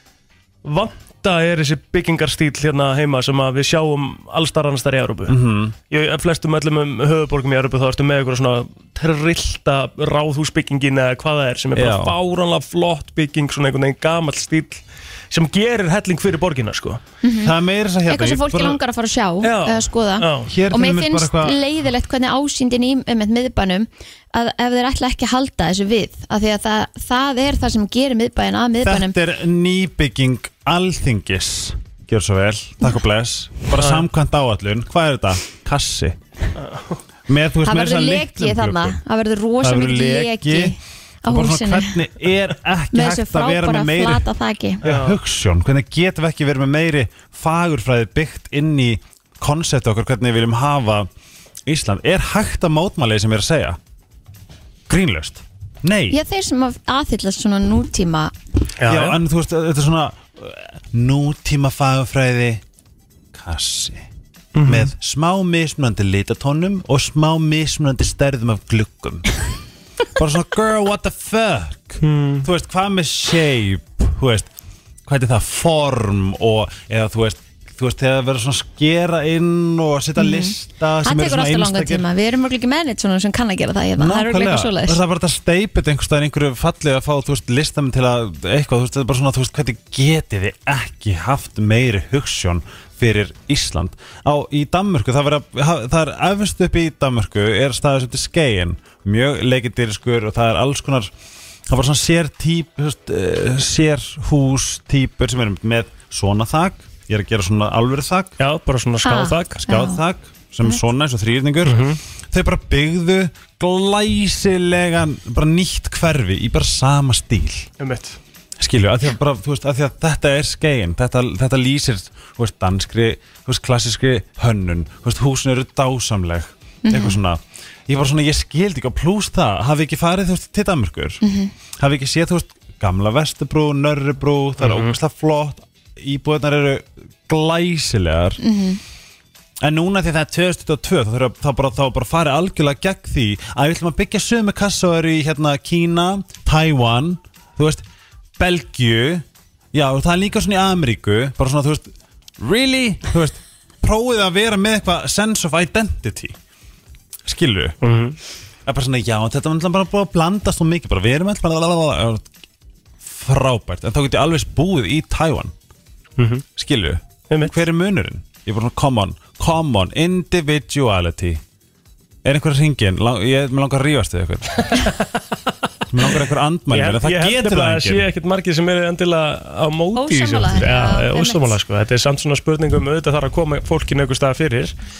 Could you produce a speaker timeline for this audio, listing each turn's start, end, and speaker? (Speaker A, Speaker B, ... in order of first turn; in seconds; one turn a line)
Speaker A: 0.6-5.4
Speaker B: 5.3-5.7
Speaker A: 5.9-17.0
Speaker B: 11.7-12.2
Speaker C: 17.2-17.5
Speaker B: 17.4-18.8
Speaker C: 18.1-29.1
Speaker A: 19.4-20.5
Speaker B: 20.4-21.6
Speaker B: 28.8-36.2
Speaker A: 33.7-34.0
Speaker A: 36.6-37.0
Speaker B: 37.3-39.0
Speaker C: 37.6-42.0
Speaker B: 39.6-44.2
Speaker C: 42.9-44.8
Speaker B: 44.8-51.1
Speaker A: 44.8-45.2
Speaker B: 51.7-53.8
Speaker B: 54.9-56.2
Speaker C: 56.1-58.3
Speaker A: 58.8-59.2
Speaker B: 58.8-62.6
Speaker B: 63.3-64.1
Speaker A: 64.5-64.9
Speaker B: 64.6-69.3
Speaker B: 70.2-74.5
Speaker A: 72.0-72.5
Speaker B: 75.0-82.0
Speaker C: 80.2-85.0
Speaker B: 84.0-101.1
Speaker B: 101.7-108.4
Speaker A: 108.4-109.6
Speaker C: 109.0-110.0
Speaker B: 109.6-117.7
Speaker A: 111.6-112.0
Speaker A: 117.8-118.2
Speaker B: 118.6-131.2
Speaker C: 126.8-127.2
Speaker C: 131.2-131.5
Speaker B: 131.8-138.4
Speaker A: 134.6-134.9
Speaker C: 138.4-138.8
Speaker B: 139.6-147.8
Speaker B: 148.4-156.4
Speaker B: 157.2-157.8
Speaker A: 157.8-158.2
Speaker B: 158.7-162.3
Speaker B: 163.0-165.5
Speaker A: 166.2-166.4
Speaker B: 166.6-171.4
Speaker B: 172.2-174.9
Speaker A: 174.7-175.0
Speaker B: 175.9-178.1
Speaker A: 176.7-184.7
Speaker C: 179.9-181.5